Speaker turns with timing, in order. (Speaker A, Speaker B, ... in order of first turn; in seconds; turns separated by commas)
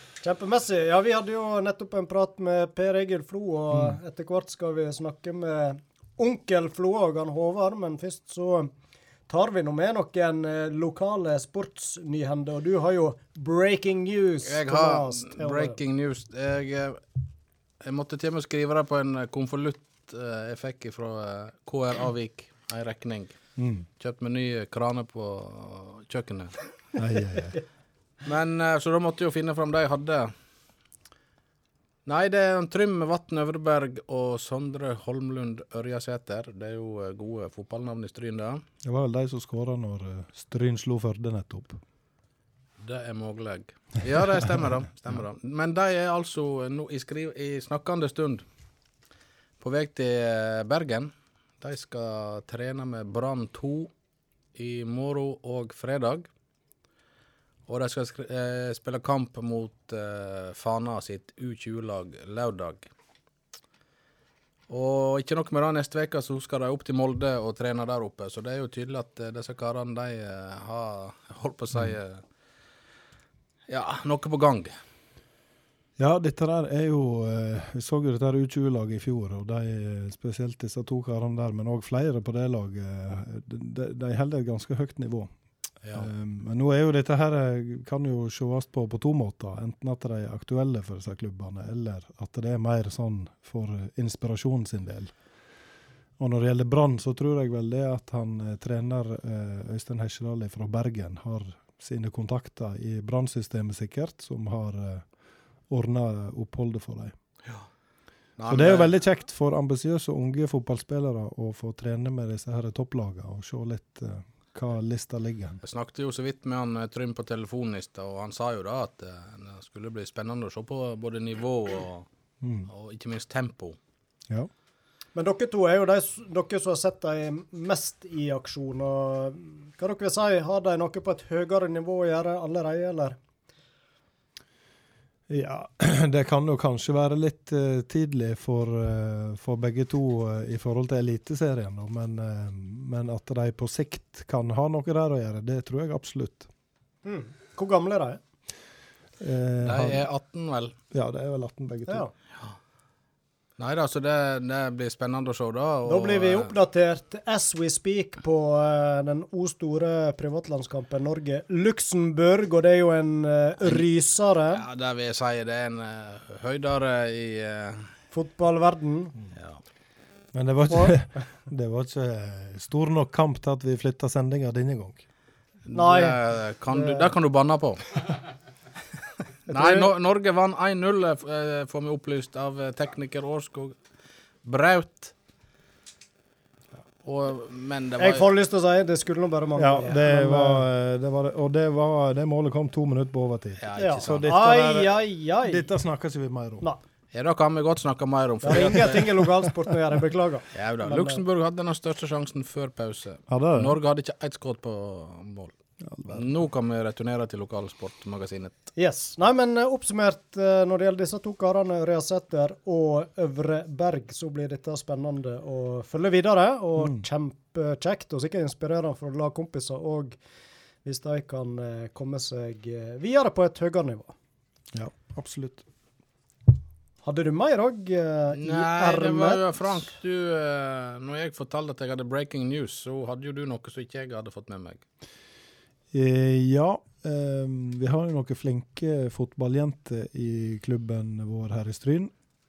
Speaker A: 0.2-8.7, Speaker A: 9.3-15.8, Speaker B: 14.4-17.0, Speaker B: 17.8-23.4, Speaker C: 23.6-23.9, Speaker B: 24.0-26.6, Speaker C: 26.9-27.6, Speaker B: 28.2-30.3, Speaker B: 32.0-38.6, Speaker C: 38.8-41.8, Speaker B: 42.8-48.5, Speaker B: 49.6-53.9, Speaker B: 54.5-56.3, Speaker B: 57.7-62.9, Speaker B: 64.7-72.2, Speaker B: 73.7-74.8, Speaker C: 76.0-85.3, Speaker B: 85.8-86.1, Speaker C: 85.9-95.1, Speaker C: 96.2-105.1, Speaker C: 105.7-107.2, Speaker B: 108.4-108.9, Speaker C: 108.5-115.6, Speaker B: 115.6-122.1, Speaker C: 122.4-122.7, Speaker B: 122.7-123.8, Speaker A: 125.1-133.2, Speaker C: 135.3-146.5, Speaker A: 147.0-148.2, Speaker C: 149.2-150.1, Speaker B: 149.6-150.7, Speaker C: 150.9-152.0, Speaker A: 151.9-152.1, Speaker B: 153.6-156.5, Speaker A: 155.8-164.6, Speaker B: 163.6-163.9, Speaker B: 164.5-167.9, Speaker A: 168.1-169.1, Speaker B: 169.3-169.6, Speaker C: 170.3-175.0, Speaker A: 170.7-171.0, Speaker B: 175.7-177.9, Speaker A: 175.7-177.1, Speaker A: 179.5-179.9, Speaker B: 179.5-183.8, Speaker B: 184.4-185.1, Speaker B: 187.0-188.2, Speaker A: 188.0-190.6, Speaker C: 189.6-196.7, Speaker B: 193.6-194.3, Speaker A: 193.8-195.7, Speaker B: 197.1-199.1, Speaker A: 198.4-201.2, Speaker C: 198.5-199.0, Speaker B: 200.5-205.5, Speaker C: 203.3-203.8, Speaker C: 205.8-206.3, Speaker B: 206.1-208.6, Speaker A: 208.8-220.2, Speaker C: 216.8-217.0, Speaker A: 220.8-224.1, Speaker C: 224.7-225.6, Speaker A: 227.0-229.4, Speaker B: 228.3-234.8, Speaker C: 235.9-242.1